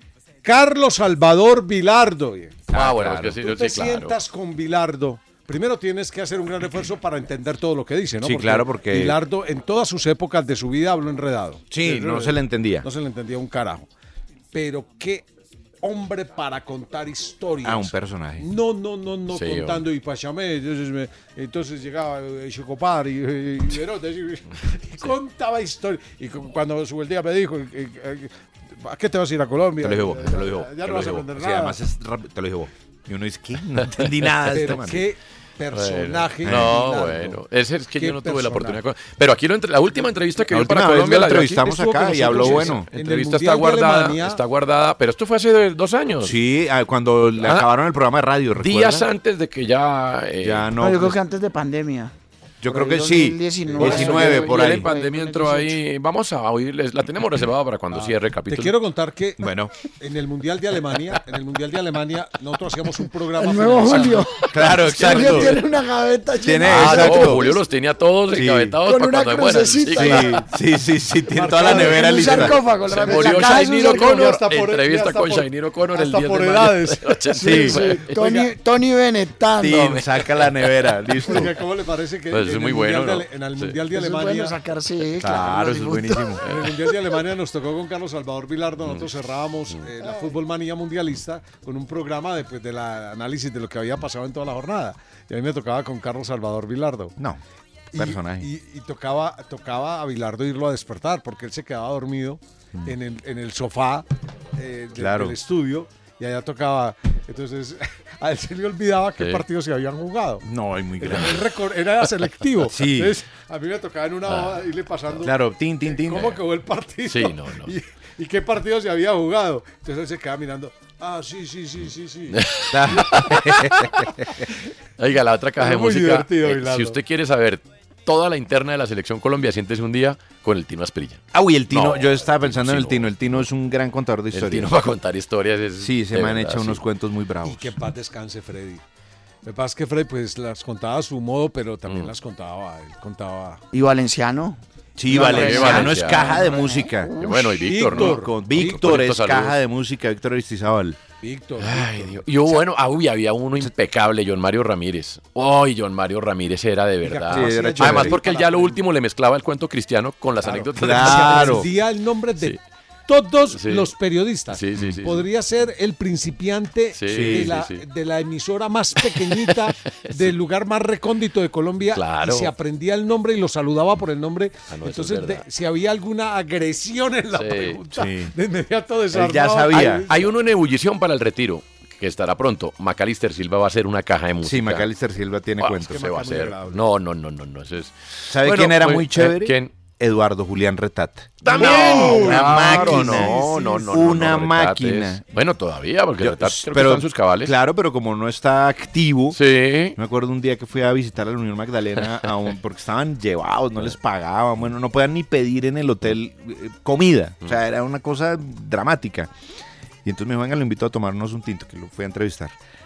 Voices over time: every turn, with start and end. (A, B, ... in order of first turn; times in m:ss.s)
0:00.4-0:02.7 A
0:02.7-0:03.4 B
0:02.7-0:04.2 C
0:03.4-0:13.9 A
0:08.2-0:09.2 B
0:11.7-0:12.9 B
0:14.5-0:15.3 A
0:15.8-0:31.8 A
0:17.6-0:18.5 B
0:19.3-0:19.9 C
0:29.8-0:35.1 B
0:33.9-0:34.8 C
0:34.5-0:37.4 A
0:35.7-0:46.4 C
0:36.4-0:36.8 B
0:38.0-0:38.8 A
0:40.5-0:42.9 B
0:41.4-0:44.4 A
0:46.2-0:49.1 B
0:47.4-0:47.7 C
0:48.6-0:50.7 C
0:50.4-0:51.2 B
0:50.8-0:52.1 D
0:52.6-0:54.9 B
0:52.7-0:55.8 D
0:53.8-0:58.7 C
0:57.9-0:59.5 A
0:59.4-0:59.7 B
1:00.0-1:04.3 A
1:03.4-1:07.6 D
1:03.9-1:05.6 C
1:04.5-1:05.6 B
1:06.4-1:07.5 B
1:06.6-1:10.4 C
1:08.3-1:08.8 B
1:08.8-1:10.4 D
1:09.9-1:12.6 B
1:11.3-1:18.5 A
1:11.6-1:14.4 D
1:11.6-1:18.2 C
1:17.4-1:17.9 B
1:17.5-1:20.0 D
1:19.6-1:21.6 B
1:19.6-1:20.5 C
1:21.2-1:24.6 A
1:22.3-1:23.8 C
1:23.9-1:26.3 D
1:25.2-1:26.4 B
1:26.4-1:37.2 A
1:30.0-1:30.3 D
1:37.9-1:50.4 A
1:37.9-1:38.5 B
1:45.0-1:45.4 B
1:49.2-1:49.4 C
1:50.4-1:51.5 B
1:51.0-2:02.4 A
1:52.6-1:53.2 B
1:54.3-1:54.6 C
1:55.2-1:56.4 B
1:57.1-1:57.8 C
2:02.3-2:03.9 C
2:02.7-2:04.3 B
2:05.0-2:13.5 C
2:05.6-2:07.0 A
2:11.3-2:14.7 B
2:14.3-2:16.8 C
2:15.8-2:17.7 B
2:17.4-2:18.8 A
2:19.4-2:23.6 A
2:21.9-2:22.1 C
2:23.7-2:27.4 D
2:25.0-2:27.1 B
2:25.1-2:26.4 A
2:25.2-2:26.3 C
2:27.2-2:29.6 C
2:27.6-2:29.0 A
2:27.8-2:31.0 B
2:31.2-2:32.6 A
2:31.6-2:41.7 C
2:37.0-2:38.8 A
2:37.3-2:38.2 B
2:40.4-3:00.3 A
2:40.5-2:41.7 B
2:43.5-2:43.9 C
2:44.5-2:45.3 C
2:46.9-2:47.8 C
2:47.1-2:47.6 B
2:49.2-2:50.3 C
2:51.9-2:52.5 C
2:54.7-2:55.5 C
2:57.3-2:57.8 C
2:57.9-2:58.3 B
2:59.1-3:00.1 B
2:59.7-3:04.9 C
3:04.4-3:06.1 B
3:05.6-3:09.7 C
3:05.8-3:06.9 A
3:08.3-3:15.2 B
3:11.4-3:17.5 C
3:11.5-3:13.6 A
3:16.2-3:19.4 B
3:19.3-3:20.0 C
3:20.0-3:29.3 B
3:30.0-3:32.6 B